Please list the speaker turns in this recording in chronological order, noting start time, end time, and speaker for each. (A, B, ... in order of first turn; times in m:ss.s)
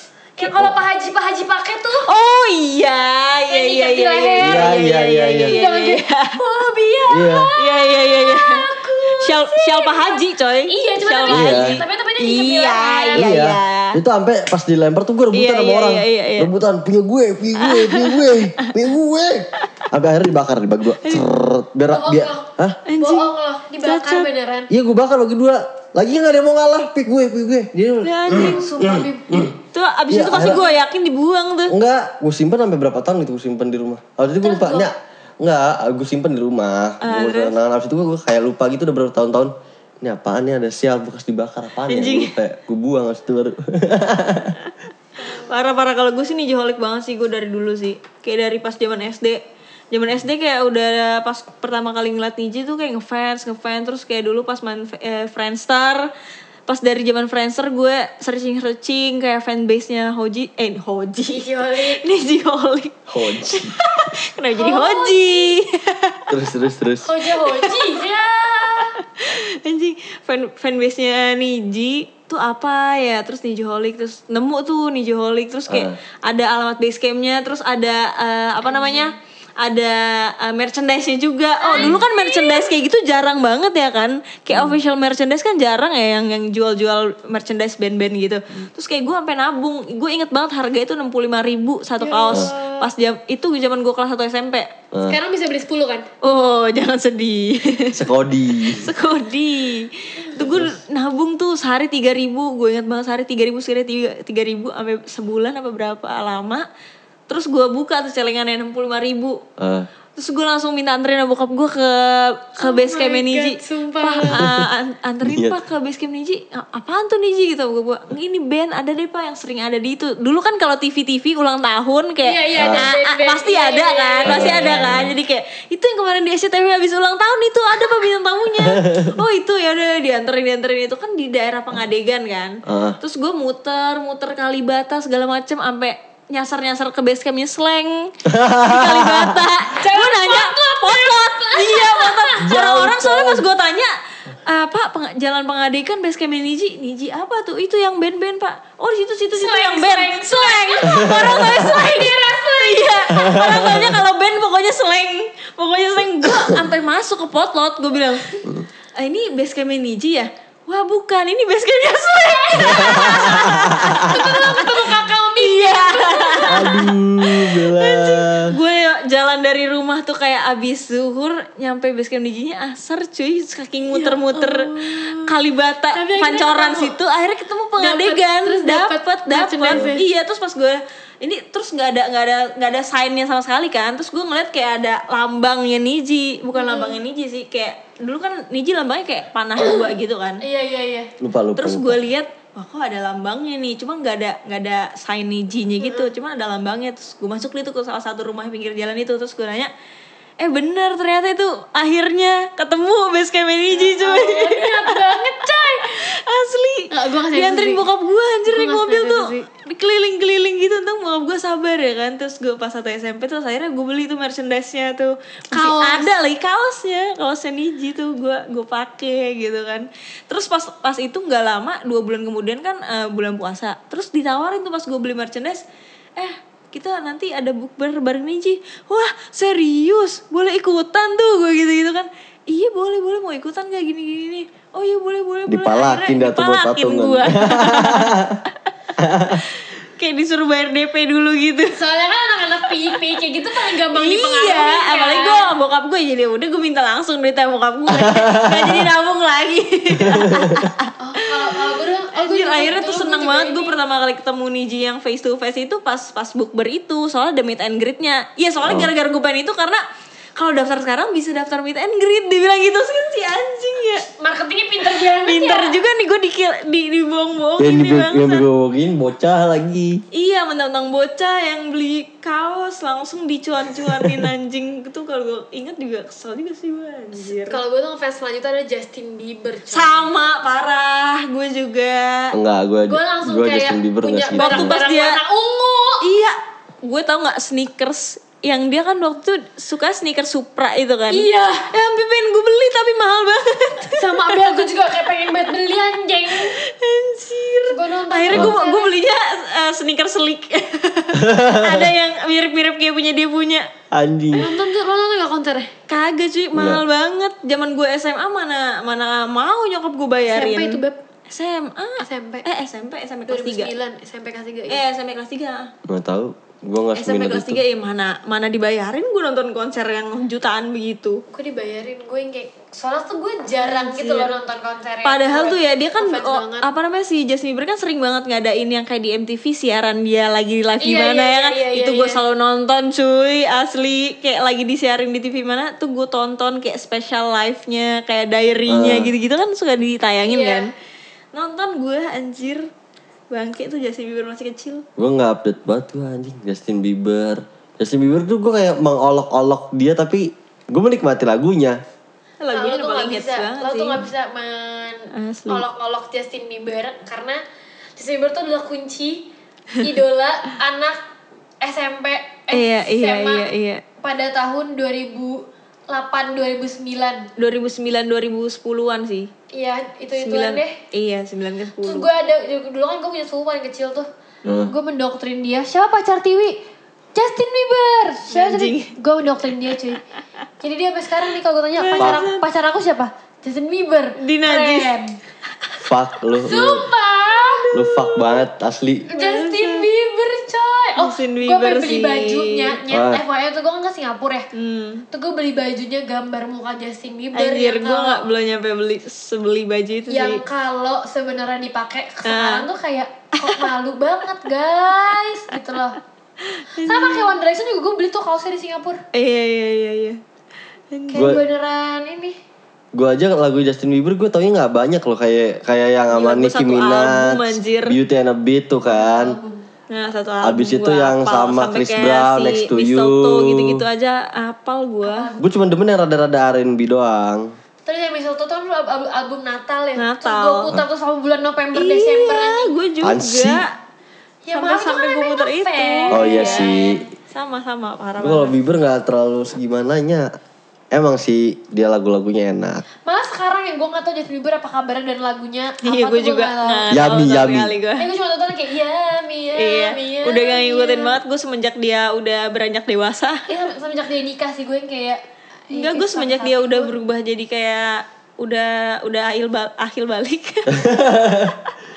0:00.4-0:02.1 A
0:02.1-0:06.4 B
0:03.5-0:13.3 A
0:04.4-0:05.6 C
0:07.1-0:07.5 C
0:07.6-0:14.0 B
0:11.3-0:11.8 C
0:13.1-0:22.8 C
0:15.3-0:16.5 B
0:17.6-0:18.7 B
0:21.0-0:21.3 B
0:21.9-0:24.7 A
0:22.9-0:24.3 B
0:24.7-0:29.5 C
0:28.0-0:28.7 B
0:28.3-0:29.6 A
0:29.7-0:31.8 B
0:30.1-0:30.6 C
0:31.7-0:44.6 C
0:34.4-0:34.9 A
0:37.0-0:37.5 B
0:41.9-0:42.3 B
0:45.2-0:49.4 B
0:45.2-0:45.5 A
0:49.9-0:56.1 B
0:56.7-1:06.3 B
1:01.3-1:02.0 A
1:03.1-1:03.8 C
1:04.6-1:05.6 A
1:06.3-1:07.1 C
1:07.0-1:09.0 A
1:07.4-1:08.0 B
1:08.8-1:34.7 B
1:15.7-1:16.0 C
1:18.6-1:19.1 A
1:21.6-1:22.7 A
1:24.5-1:24.8 C
1:32.0-1:32.9 A
1:35.1-1:36.1 A
1:36.2-1:38.1 B
1:37.9-1:38.9 C
1:38.6-1:46.6 B
1:40.4-1:40.8 C
1:47.3-1:49.4 B
1:49.6-1:49.9 C
1:50.2-2:23.9 B
1:52.6-1:54.4 A
1:54.3-1:54.7 C
1:55.2-1:55.6 C
2:02.2-2:04.8 A
2:02.6-2:02.9 C
2:04.3-2:05.1 C
2:08.6-2:09.2 C
2:12.6-2:13.0 C
2:18.3-2:19.5 C
2:19.8-2:22.6 A
2:22.4-2:23.5 C
2:24.4-2:38.5 B
2:29.3-2:33.7 A
2:30.9-2:31.8 C
2:33.2-2:34.0 C
2:36.3-2:36.6 C
2:39.0-3:10.4 B
2:42.6-2:46.9 A
2:42.6-2:44.0 C
2:46.5-2:48.6 C
2:53.9-2:55.3 A
2:55.9-2:57.0 A
2:57.8-3:00.1 A
2:59.7-2:59.9 C
3:06.5-3:07.0 A
3:09.6-3:09.9 A
3:10.4-3:11.1 A
3:11.2-3:12.0 C
3:11.6-3:19.7 B
3:15.8-3:16.1 A
3:20.4-3:45.6 B
3:23.7-3:26.1 A
3:26.9-3:27.8 A
3:28.5-3:29.5 A
3:35.5-3:36.1 A
3:46.2-3:58.2 B
3:55.5-3:58.4 C
3:59.0-3:59.4 C
3:59.4-4:01.8 B
4:01.7-4:05.5 A
4:02.7-4:19.8 B
4:07.9-4:08.9 C
4:09.9-4:10.7 C
4:11.0-4:13.8 A
4:18.6-4:18.9 C
4:20.4-4:24.1 B
4:24.2-4:25.8 A
4:24.9-4:28.5 B
4:27.6-4:30.0 C
4:30.1-4:37.6 B
4:33.8-4:34.3 C
4:37.2-4:40.1 A
4:39.7-4:42.3 B
4:42.3-4:44.8 C
4:42.9-4:46.1 A
4:44.4-4:45.2 B
4:46.0-4:55.6 B
4:51.1-4:51.7 A
4:53.9-4:56.6 A
4:56.3-5:03.7 B
4:57.7-4:58.9 A
4:58.3-4:58.6 C
5:01.1-5:01.9 C
5:03.9-5:04.5 C
5:04.4-5:05.7 A
5:05.9-5:13.7 B
5:06.5-5:06.8 C
5:10.3-5:11.0 A
5:12.0-5:12.5 A
5:13.3-5:14.8 A
5:14.7-5:15.7 B
5:15.9-5:17.6 C
5:17.0-5:21.2 B
5:21.3-5:26.7 A
5:23.6-5:24.3 B
5:25.0-5:40.7 B
5:30.8-5:32.2 A
5:38.7-5:39.1 C
5:40.3-5:40.7 A
5:41.3-5:42.7 B
5:43.3-5:44.8 B
5:45.0-5:51.8 C
5:52.4-5:54.0 B
5:52.5-5:57.4 A
5:55.1-5:55.6 B
5:58.0-5:59.3 A
5:59.8-6:01.0 A
6:01.6-6:03.5 A
6:02.5-6:03.8 B
6:04.0-6:07.3 A
6:07.4-6:09.3 B
6:09.5-6:10.8 A
6:10.2-6:12.1 B
6:11.8-6:14.1 A
6:14.4-6:14.7 B
6:14.4-6:14.7 C
6:14.7-6:16.6 A
6:17.2-6:20.0 A
6:18.3-6:18.9 B
6:20.6-6:25.2 A
6:21.8-6:22.4 B
6:24.2-6:24.9 B
6:25.8-6:26.9 C
6:26.4-6:27.7 A
6:27.4-6:28.4 B
6:27.7-6:29.1 C
6:29.1-6:34.5 A
6:29.1-6:29.9 B
6:31.0-6:32.8 B
6:32.9-6:33.2 C
6:34.5-6:35.1 B
6:35.1-6:38.3 A
6:37.4-6:40.4 B
6:40.1-6:46.0 A
6:42.3-6:42.7 B
6:43.4-6:43.7 B
6:46.4-6:47.3 B
6:46.8-6:49.0 A
6:49.1-6:50.2 B
6:50.9-6:51.4 B
6:51.1-6:52.4 A
6:51.1-6:51.4 C
6:52.9-6:59.4 C
6:56.1-6:58.0 B
6:58.8-6:59.7 A
6:59.9-7:05.3 B
7:00.4-7:03.8 C
7:05.0-7:05.5 A
7:05.4-7:07.5 C
7:07.9-7:12.7 A
7:10.0-7:10.7 B
7:11.8-7:13.7 B
7:13.0-7:13.6 C
7:14.5-7:17.0 A
7:14.5-7:18.6 B
7:16.1-7:17.0 C
7:18.2-7:20.3 C
7:20.9-7:22.8 C
7:23.1-7:27.1 A
7:25.8-7:28.1 B
7:26.9-7:27.8 C
7:28.0-7:31.2 A
7:29.6-7:33.5 B
7:33.5-7:36.9 A
7:35.7-7:40.9 B
7:40.7-7:41.6 C
7:41.5-7:41.7 B